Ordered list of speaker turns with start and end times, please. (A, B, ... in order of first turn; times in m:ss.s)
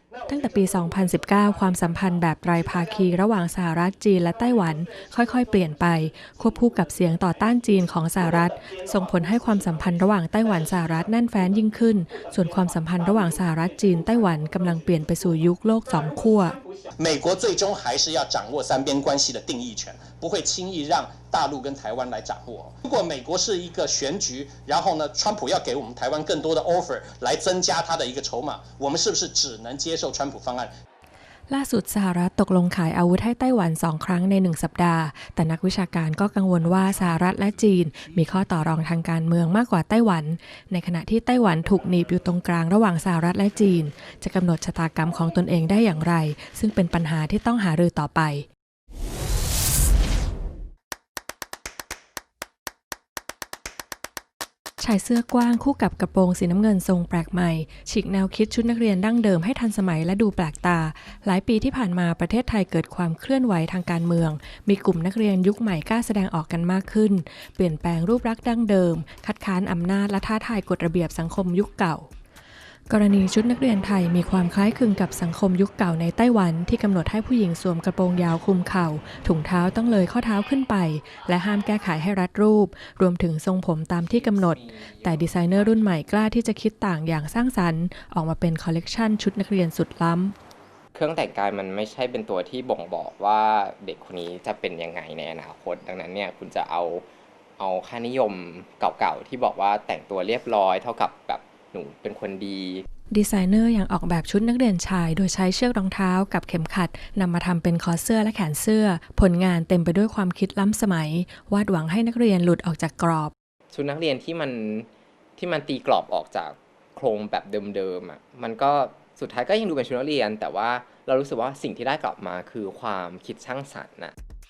0:00.3-0:16.6 A
0:17.0-0:30.7 B
0:31.5-0:48.4 A
0:54.8-1:12.1 A
1:12.9-1:30.3 A
1:24.1-1:25.8 C
1:30.9-1:37.0 C
1:37.6-1:42.8 C
1:43.1-1:53.3 A
1:53.7-2:04.1 C